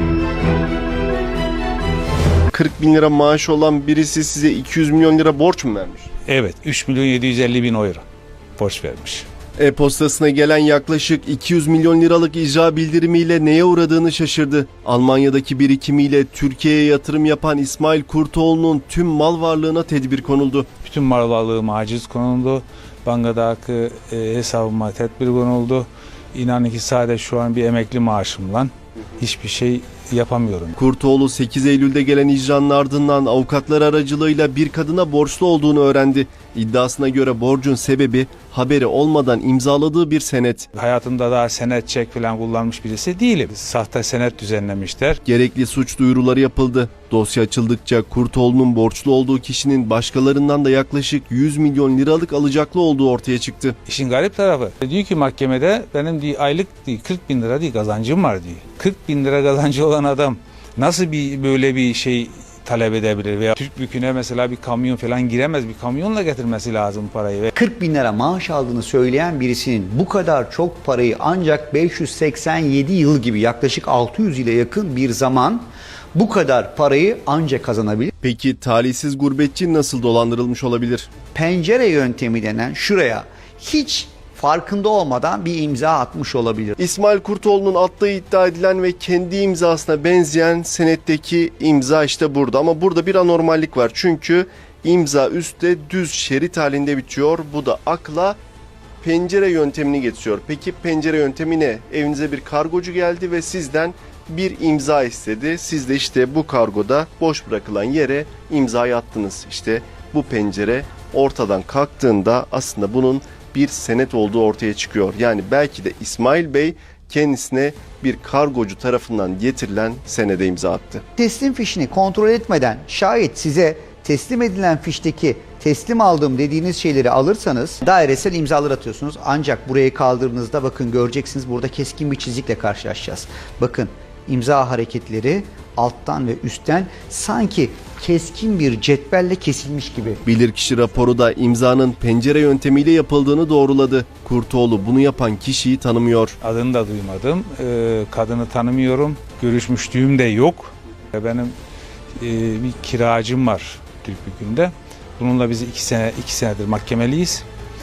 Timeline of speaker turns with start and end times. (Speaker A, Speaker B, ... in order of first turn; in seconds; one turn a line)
Speaker A: 2.5-6.1
Speaker B: 6.3-8.0
Speaker B: 8.6-9.3
Speaker A: 9.6-20.7
Speaker B: 20.8-30.8
Speaker A: 30.8-40.7
Speaker B: 40.7-45.2
Speaker A: 45.2-53.8
Speaker B: 53.9-67.5
Speaker C: 67.5-78.1
Speaker A: 78.2-81.1
Speaker C: 81.3-86.8
Speaker A: 86.8-98.4
Speaker A: 99.0-121.0
Speaker C: 121.2-140.2
Speaker A: 140.2-146.4
Speaker B: 146.4-151.6
Speaker B: 152.2-157.4